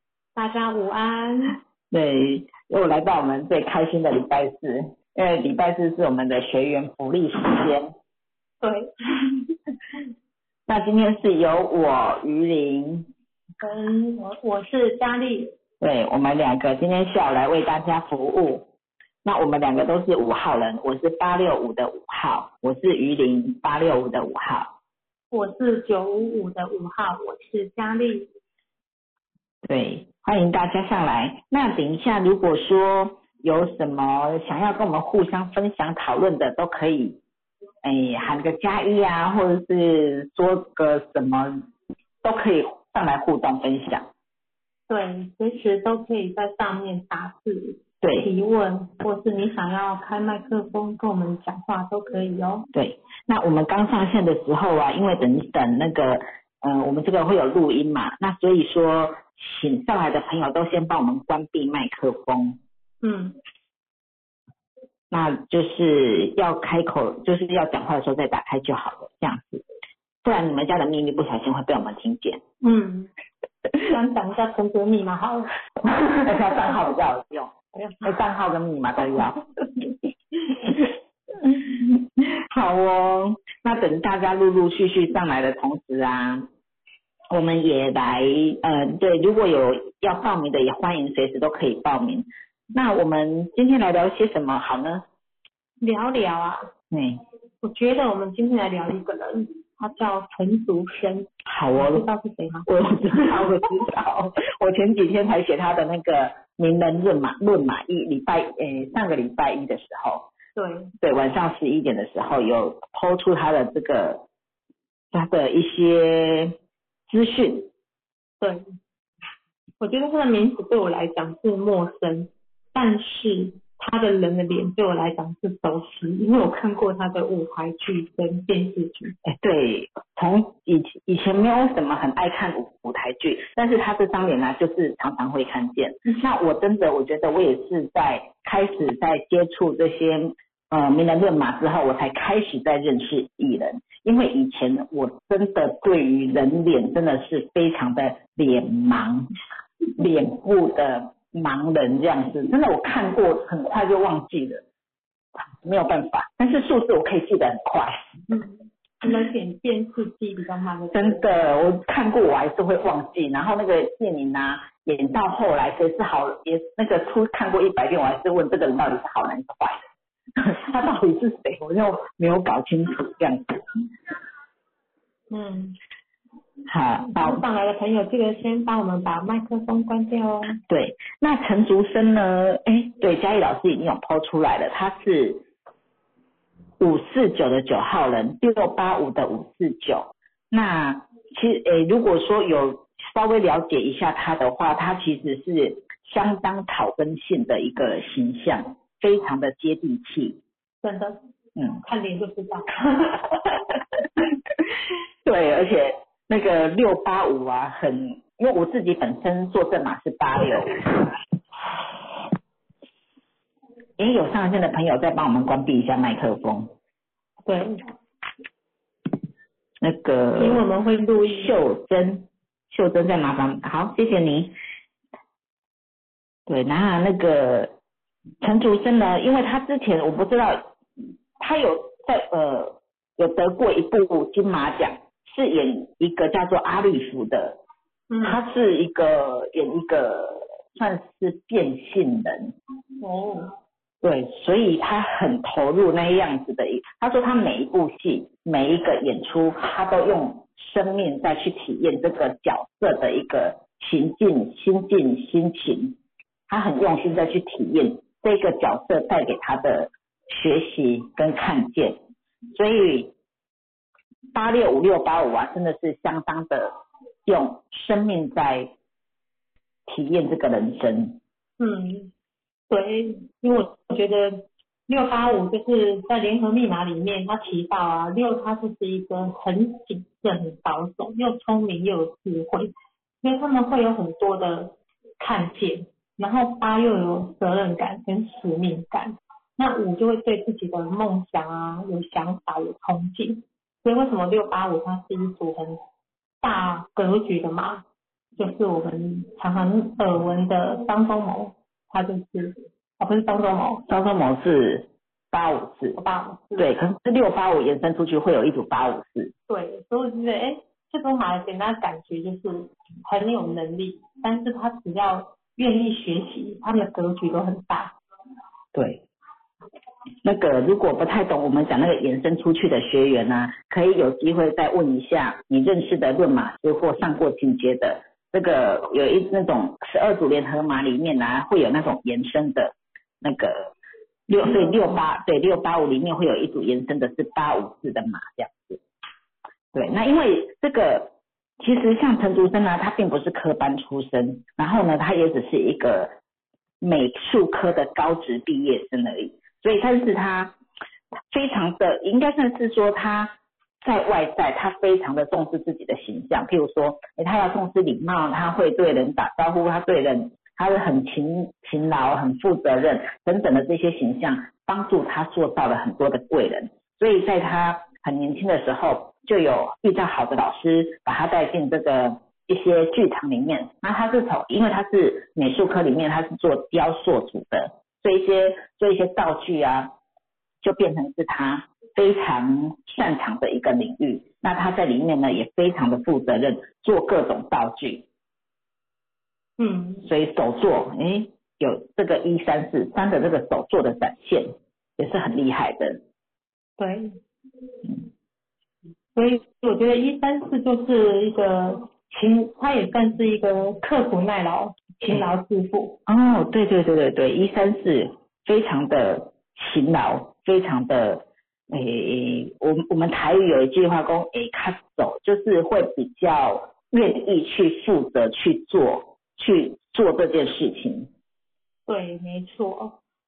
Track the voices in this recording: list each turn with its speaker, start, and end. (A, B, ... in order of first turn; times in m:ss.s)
0:00.4-0:01.6 A
0:01.9-0:07.9 B
0:08.6-0:09.4 A
0:10.7-0:13.1 B
0:13.6-0:15.5 A
0:15.8-0:18.6 B
0:19.2-0:24.7 B
0:25.3-0:28.3 A
0:29.6-0:37.2 B
0:37.8-0:41.6 B
0:42.2-0:44.1 B
0:44.9-0:52.7 A
0:48.0-0:48.3 B
0:52.7-1:02.6 B
1:03.0-1:03.4 A
1:05.1-1:09.6 B
1:10.2-1:12.4 B
1:12.6-1:13.1 A
1:13.8-1:15.5 A
1:15.8-1:17.5 B
1:17.7-1:18.0 A
1:18.0-1:19.5 B
1:21.4-1:26.5 B
1:27.3-1:35.0 B
1:35.8-1:36.7 A
1:36.9-1:37.2 B
1:37.6-1:43.3 A
1:41.4-1:42.0 B
1:42.6-1:50.3 B
1:50.6-1:50.9 A
1:51.0-1:54.2 B
1:55.1-1:56.6 B
1:57.1-1:57.7 B
1:59.8-2:09.2 A
2:09.2-2:29.3 B
2:30.0-2:34.6 B
2:35.4-2:38.2 B
2:38.3-2:41.6 A
2:40.9-2:49.8 B
2:50.4-2:53.5 B
2:55.3-2:55.8 A
2:56.7-2:57.4 B
2:57.1-3:00.6 A
3:00.7-3:05.4 B
3:06.8-3:20.4 B
3:20.8-3:21.2 A
3:21.8-3:23.2 A
3:25.2-3:31.2 B
3:34.0-3:36.7 B
3:37.4-3:37.8 A
3:39.8-3:40.6 B
3:40.4-3:41.5 A
3:41.2-3:44.5 B
3:46.5-3:47.7 B
3:48.4-3:50.7 B
3:51.4-3:57.6 B
3:58.1-3:58.4 A
3:58.2-4:02.5 B
4:03.0-4:03.5 A
4:04.0-4:16.0 B
4:16.5-4:22.0 B
4:22.5-4:23.1 B
4:24.3-4:26.7 B
4:27.2-4:28.7 B
4:29.9-4:31.2 B
4:31.6-4:32.1 A
4:32.7-4:42.7 A
4:43.2-4:55.8 A
4:56.4-4:57.8 A
4:58.4-5:03.8 A
5:03.9-5:06.0 B
5:06.0-5:06.7 A
5:06.6-5:09.3 B
5:09.5-5:17.9 A
5:18.7-5:19.0 B
5:20.2-5:33.7 B
5:34.3-5:38.8 B
5:34.4-5:34.8 A
5:39.7-5:46.1 B
5:46.8-5:50.5 B
5:51.3-6:19.9 B
6:20.6-6:28.0 B
6:29.6-6:30.1 A
6:30.0-6:36.0 B
6:36.8-6:37.2 A
6:39.2-6:46.0 A
6:46.1-7:01.1 B
7:01.9-7:03.0 A